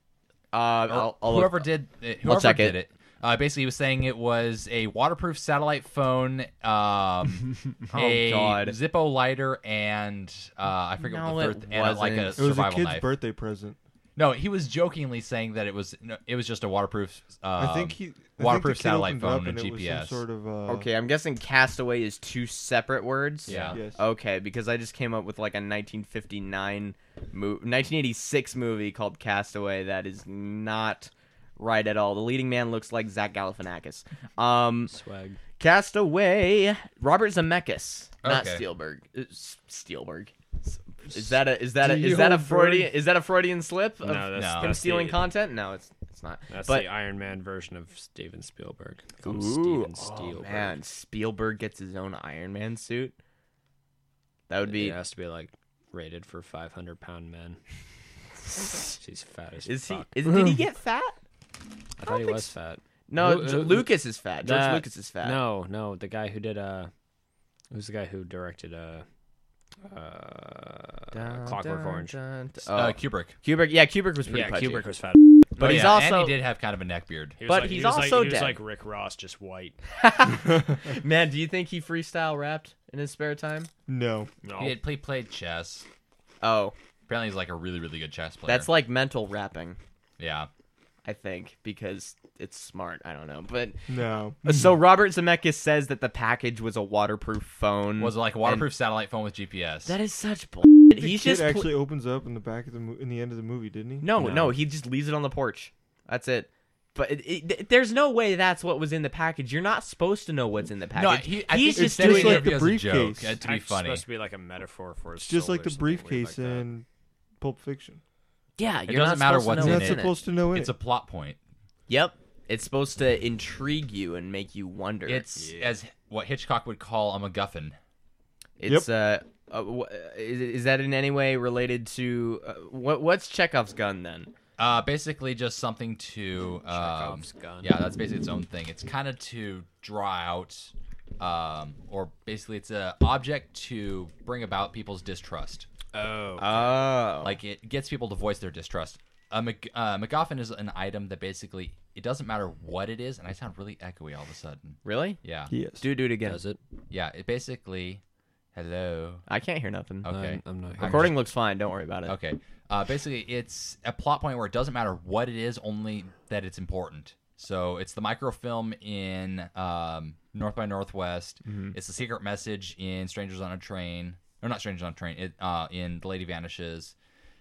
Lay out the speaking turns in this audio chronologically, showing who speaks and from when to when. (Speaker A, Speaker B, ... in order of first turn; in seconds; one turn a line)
Speaker A: 0.5-1.7
Speaker B: 0.9-13.1
Speaker A: 2.2-2.8
Speaker A: 7.9-8.8
Speaker A: 11.0-12.5
Speaker C: 12.4-13.8
Speaker B: 14.2-20.2
Speaker C: 17.6-20.9
Speaker A: 20.7-34.9
Speaker B: 23.5-23.8
Speaker D: 23.5-23.7
Speaker C: 23.7-24.0
Speaker D: 34.9-35.4
Speaker A: 35.6-46.9
Speaker B: 38.2-38.6
Speaker D: 41.8-42.9
Speaker D: 44.0-45.3
Speaker B: 44.3-44.7
Speaker D: 46.5-50.8
Speaker A: 49.2-53.1
Speaker A: 54.5-55.0
Speaker D: 54.6-57.6
Speaker D: 58.6-60.6
Speaker A: 59.7-61.2
Speaker D: 62.0-66.9
Speaker A: 62.0-62.5
Speaker A: 63.1-65.4
Speaker D: 67.7-69.0
Speaker D: 69.9-72.2
Speaker A: 71.1-74.9
Speaker B: 72.7-73.4
Speaker D: 74.3-75.5
Speaker A: 75.6-76.4
Speaker B: 75.6-77.4
Speaker D: 77.4-79.8
Speaker A: 77.5-78.6
Speaker A: 80.0-83.7
Speaker C: 83.9-84.3
Speaker D: 84.4-84.8
Speaker B: 84.6-85.9
Speaker A: 86.4-86.7
Speaker B: 87.1-88.7
Speaker A: 88.5-89.8
Speaker B: 90.2-90.5
Speaker A: 91.0-93.9
Speaker C: 93.9-94.7
Speaker A: 94.4-98.7
Speaker B: 98.0-100.0
Speaker A: 99.9-101.7
Speaker C: 101.0-104.1
Speaker A: 104.0-112.5
Speaker D: 104.2-104.5
Speaker B: 111.0-114.0
Speaker C: 111.8-113.4
Speaker D: 113.4-116.7
Speaker C: 115.2-116.9
Speaker C: 117.4-118.0
Speaker A: 118.6-120.2
Speaker B: 118.9-121.4
Speaker C: 119.6-120.7
Speaker A: 121.9-125.2
Speaker B: 125.1-127.8
Speaker D: 125.4-125.8
Speaker A: 128.6-134.3
Speaker B: 134.6-145.7
Speaker D: 136.7-137.7
Speaker D: 145.9-146.9
Speaker A: 146.4-147.4
Speaker B: 147.2-155.5
Speaker A: 154.8-155.2
Speaker C: 155.5-155.8
Speaker A: 155.7-156.4
Speaker D: 156.2-156.6
Speaker B: 156.9-158.0
Speaker B: 158.5-159.2
Speaker A: 159.3-160.1
Speaker B: 160.0-161.2
Speaker D: 160.1-161.1
Speaker A: 160.8-162.2
Speaker B: 162.1-176.9
Speaker A: 171.4-171.8